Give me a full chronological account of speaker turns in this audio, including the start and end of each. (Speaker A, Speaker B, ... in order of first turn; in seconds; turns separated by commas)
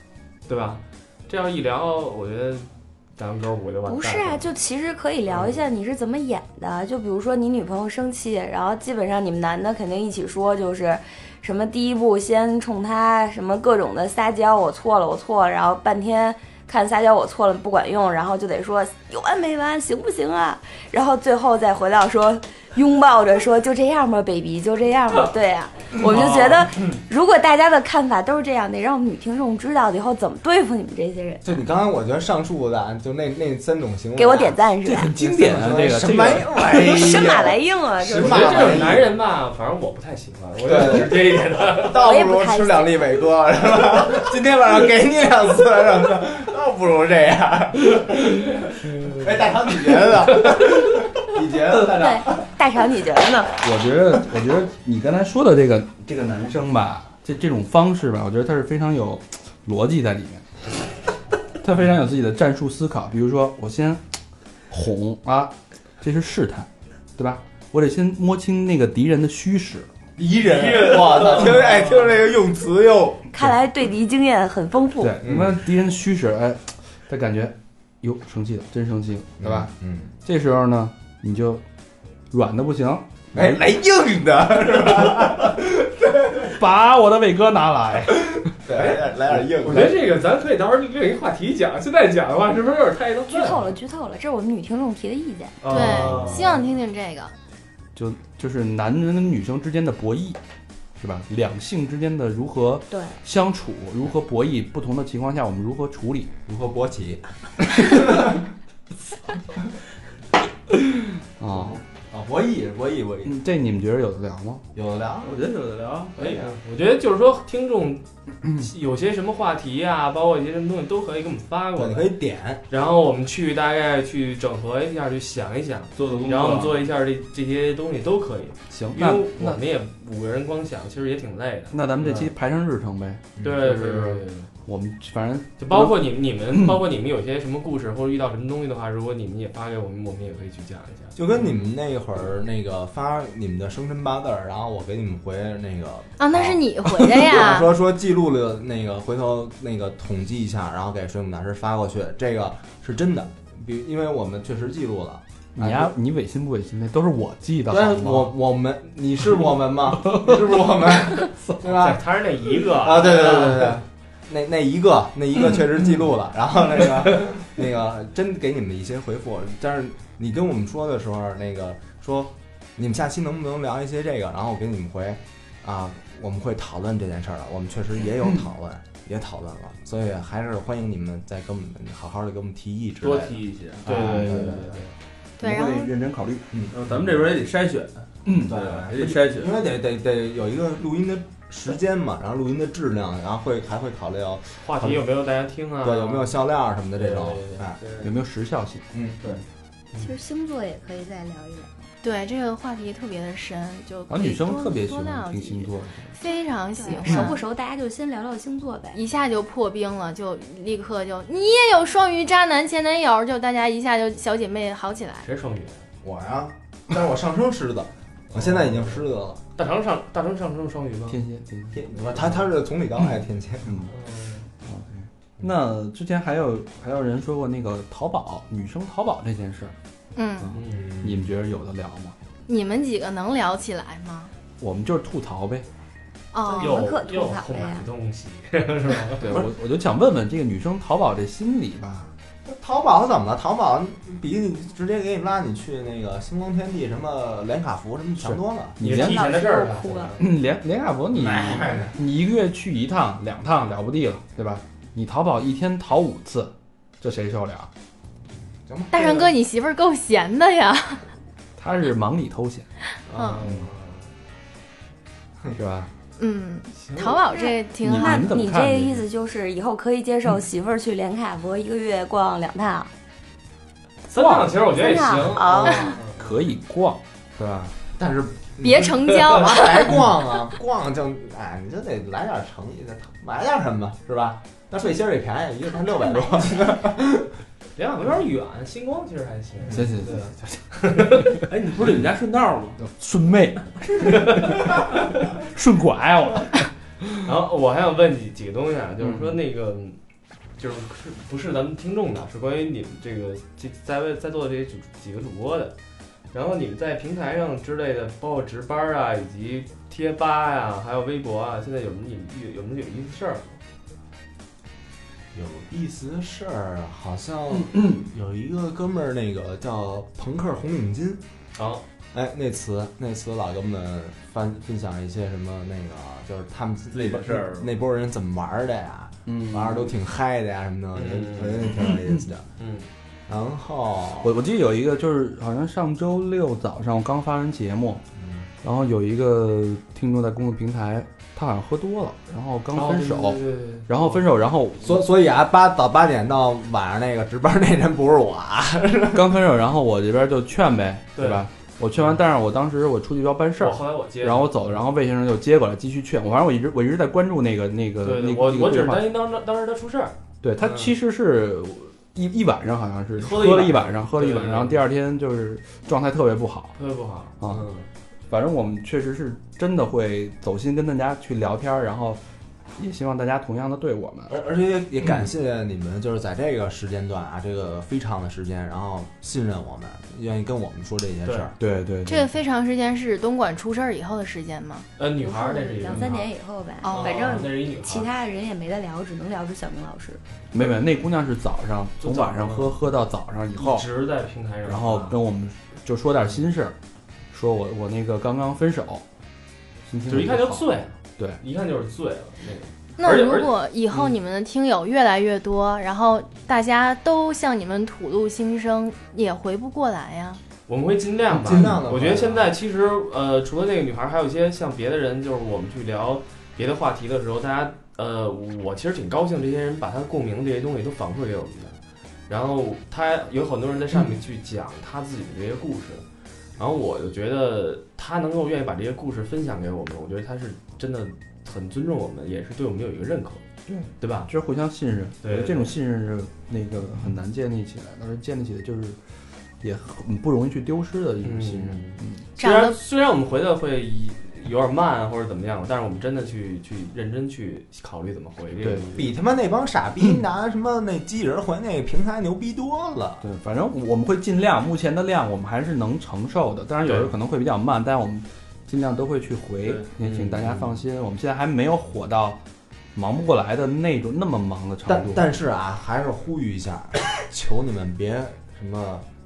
Speaker A: 0.5-4.5, Speaker B: 3.9-31.6, Speaker A: 5.3-5.7, Speaker C: 31.4-34.6, Speaker B: 34.1-35.1, Speaker D: 34.8-36.6, Speaker C: 35.1-39.1, Speaker B: 36.5-38.9, Speaker A: 38.1-42.0, Speaker C: 40.6-52.5, Speaker B: 41.9-43.1, Speaker B: 51.8-53.6, Speaker D: 53.6-60.5, Speaker D: 61.6-64.1, Speaker D: 64.7-69.9, Speaker C: 70.2-73.3, Speaker A: 70.6-71.7, Speaker B: 73.3-75.2, Speaker D: 75.0-79.7, Speaker C: 75.2-75.6, Speaker C: 79.4-80.1, Speaker D: 80.2-81.6, Speaker D: 82.3-83.6, Speaker C: 83.3-86.5, Speaker D: 86.5-88.5, Speaker C: 88.3-90.0, Speaker A: 88.7-93.7, Speaker B: 93.3-96.2, Speaker A: 95.6-96.6, Speaker E: 95.7-97.3, Speaker D: 96.1-96.4, Speaker D: 98.0-100.4, Speaker D: 101.0-106.3, Speaker B: 102.9-103.2, Speaker C: 106.5-108.4, Speaker D: 110.7-111.8, Speaker C: 111.5-113.3, Speaker D: 113.2-114.7, Speaker C: 114.7-115.4, Speaker F: 115.2-116.2, Speaker C: 116.2-116.5, Speaker A: 116.2-122.1, Speaker D: 118.4-118.7, Speaker C: 121.8-122.6, Speaker A: 122.7-132.3, Speaker F: 126.0-126.9, Speaker D: 128.7-129.6, Speaker D: 131.7-136.0, Speaker A: 133.4-134.5, Speaker A: 135.6-141.5, Speaker D: 136.5-136.8, Speaker C: 141.2-155.9, Speaker E: 146.2-147.7, Speaker D: 155.6-158.3, Speaker C: 157.7-184.8, Speaker A: 161.6-163.8, Speaker F: 183.0-184.4, Speaker A: 183.8-184.9, Speaker E: 185.4-185.9, Speaker D: 185.4-186.5, Speaker C: 186.5-186.8, Speaker F: 186.7-189.5, Speaker D: 188.2-188.6, Speaker C: 188.3-195.1, Speaker A: 194.6-196.4, Speaker C: 195.8-197.8, Speaker A: 197.0-198.1, Speaker D: 198.0-198.9, Speaker C: 198.9-199.4, Speaker B: 200.0-201.7, Speaker E: 202.0-207.4, Speaker D: 204.1-206.2, Speaker B: 206.8-209.0, Speaker E: 208.9-215.3, Speaker A: 215.2-215.9, Speaker C: 216.0-219.4, Speaker A: 218.3-219.1, Speaker A: 219.6-221.2, Speaker D: 221.1-221.9, Speaker C: 221.7-223.9, Speaker A: 222.2-222.4, Speaker D: 223.0-223.9, Speaker A: 223.9-224.5, Speaker D: 225.4-229.8, Speaker E: 230.2-230.6, Speaker D: 230.4-232.2, Speaker A: 230.6-230.9, Speaker C: 230.7-231.3, Speaker E: 232.5-234.3, Speaker D: 234.6-235.7, Speaker E: 236.3-236.8, Speaker B: 236.4-237.9, Speaker A: 236.6-239.5, Speaker D: 239.2-242.1, Speaker C: 242.5-248.8, Speaker D: 248.2-249.3, Speaker A: 248.8-250.2, Speaker B: 248.9-250.2, Speaker D: 250.2-257.7, Speaker C: 251.1-252.0, Speaker C: 258.7-259.2, Speaker E: 258.9-261.0, Speaker D: 261.6-262.7, Speaker A: 263.1-264.1, Speaker E: 263.1-263.5, Speaker D: 263.4-263.7, Speaker D: 265.5-265.9, Speaker E: 266.2-268.3, Speaker A: 266.8-267.2, Speaker B: 267.3-272.9, Speaker D: 267.8-269.1, Speaker A: 274.1-276.2, Speaker D: 274.1-274.6, Speaker B: 274.7-276.1, Speaker D: 276.2-277.8, Speaker C: 278.0-287.3, Speaker E: 278.6-279.9, Speaker A: 287.8-291.3, Speaker D: 289.7-291.4, Speaker F: 291.5-292.8, Speaker D: 292.8-297.2, Speaker A: 294.0-294.4, Speaker A: 297.2-300.0, Speaker D: 299.0-299.4, Speaker A: 300.6-305.8, Speaker A: 306.3-313.6, Speaker C: 315.3-321.2, Speaker A: 321.6-321.8, Speaker C: 322.1-332.4, Speaker F: 326.9-327.7, Speaker D: 329.3-329.9, Speaker A: 330.9-331.8, Speaker D: 331.8-332.2, Speaker A: 332.6-332.9, Speaker C: 333.3-334.3, Speaker D: 334.2-338.0, Speaker C: 338.2-338.5, Speaker D: 338.6-345.1, Speaker A: 342.7-344.2, Speaker C: 344.8-349.3, Speaker D: 349.1-359.1, Speaker A: 351.2-352.2, Speaker A: 353.6-354.7, Speaker A: 358.0-360.9, Speaker D: 360.4-366.8, Speaker A: 363.2-364.8, Speaker A: 366.8-367.9, Speaker D: 367.4-367.7, Speaker D: 368.3-372.2, Speaker D: 372.8-374.3, Speaker C: 374.3-381.6, Speaker D: 381.6-382.3, Speaker E: 382.1-384.9, Speaker A: 385.0-386.3, Speaker B: 385.2-390.2, Speaker E: 386.8-387.5, Speaker A: 386.9-388.1, Speaker D: 390.5-393.9, Speaker A: 392.0-392.8, Speaker A: 393.5-395.2, Speaker D: 394.6-396.8, Speaker D: 397.3-399.0, Speaker D: 399.9-400.6, Speaker A: 400.1-404.1, Speaker E: 403.0-410.4, Speaker A: 410.7-421.8, Speaker C: 411.3-412.5, Speaker D: 411.5-411.8, Speaker A: 422.3-426.0, Speaker A: 426.6-433.4, Speaker D: 433.7-439.0, Speaker A: 434.0-434.3, Speaker A: 435.2-435.7, Speaker D: 439.6-442.2, Speaker A: 441.2-449.1, Speaker E: 442.4-442.8, Speaker D: 448.6-448.9, Speaker C: 449.0-453.2, Speaker D: 453.2-462.4, Speaker A: 456.9-457.1, Speaker A: 460.0-460.6, Speaker D: 462.9-465.3, Speaker C: 464.9-469.1